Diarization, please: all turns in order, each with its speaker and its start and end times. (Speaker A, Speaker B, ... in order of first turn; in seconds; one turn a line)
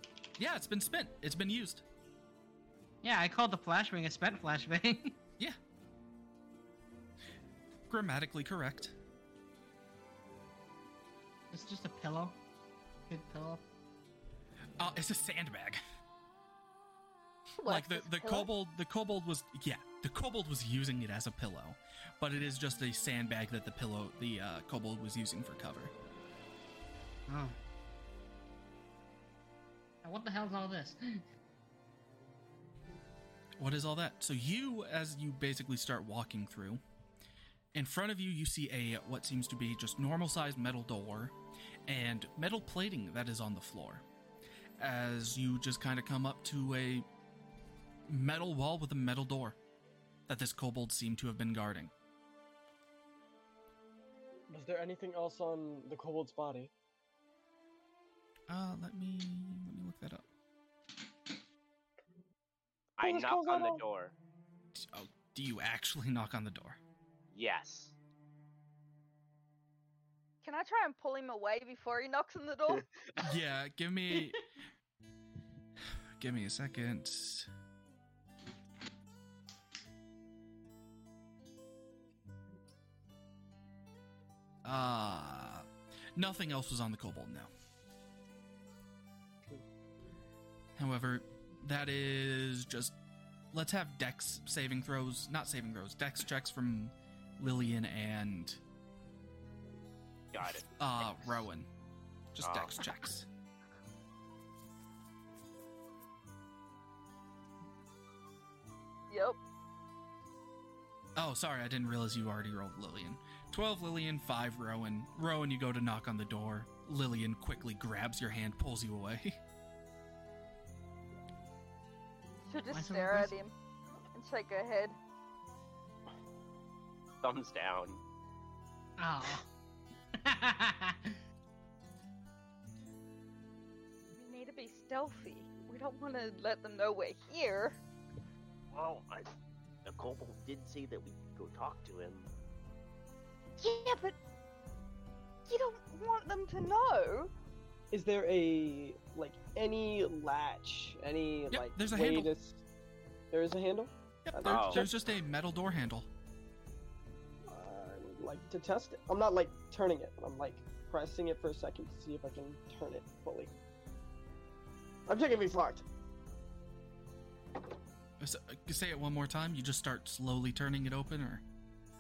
Speaker A: 0.4-1.8
Speaker B: 3.0-5.2
Speaker A: 7.9-8.9
Speaker B: 11.5-12.4
Speaker B: 13.1-13.6
Speaker A: 14.8-15.8
Speaker C: 17.6-18.5
Speaker A: 17.6-25.9
Speaker B: 27.3-27.6
Speaker B: 30.0-31.2
Speaker A: 33.6-36.8
Speaker A: 37.7-41.4
Speaker A: 41.9-44.0
Speaker A: 44.8-47.1
Speaker A: 48.1-49.6
Speaker A: 50.3-51.9
Speaker D: 54.5-56.7
Speaker A: 58.5-60.2
Speaker E: 63.0-64.2
Speaker D: 63.0-63.8
Speaker A: 64.8-66.8
Speaker E: 67.3-68.0
Speaker C: 70.4-72.9
Speaker A: 73.2-74.4
Speaker A: 76.2-77.5
Speaker A: 84.7-87.5
Speaker A: 90.8-93.0
Speaker A: 93.5-98.6
Speaker E: 100.3-101.4
Speaker A: 100.8-101.7
Speaker A: 102.3-103.3
Speaker E: 102.4-102.9
Speaker C: 109.1-109.4
Speaker A: 111.2-119.4
Speaker C: 122.5-123.5
Speaker B: 122.7-123.3
Speaker C: 124.1-125.0
Speaker E: 127.2-128.0
Speaker B: 129.0-129.5
Speaker B: 130.2-131.2
Speaker C: 134.2-137.8
Speaker E: 138.7-142.3
Speaker C: 143.6-144.2
Speaker C: 145.5-147.3
Speaker D: 147.9-152.6
Speaker A: 151.5-152.3
Speaker D: 153.3-154.9
Speaker A: 154.3-156.1
Speaker E: 154.4-154.8
Speaker D: 157.5-163.5
Speaker D: 165.1-165.8
Speaker A: 168.2-171.4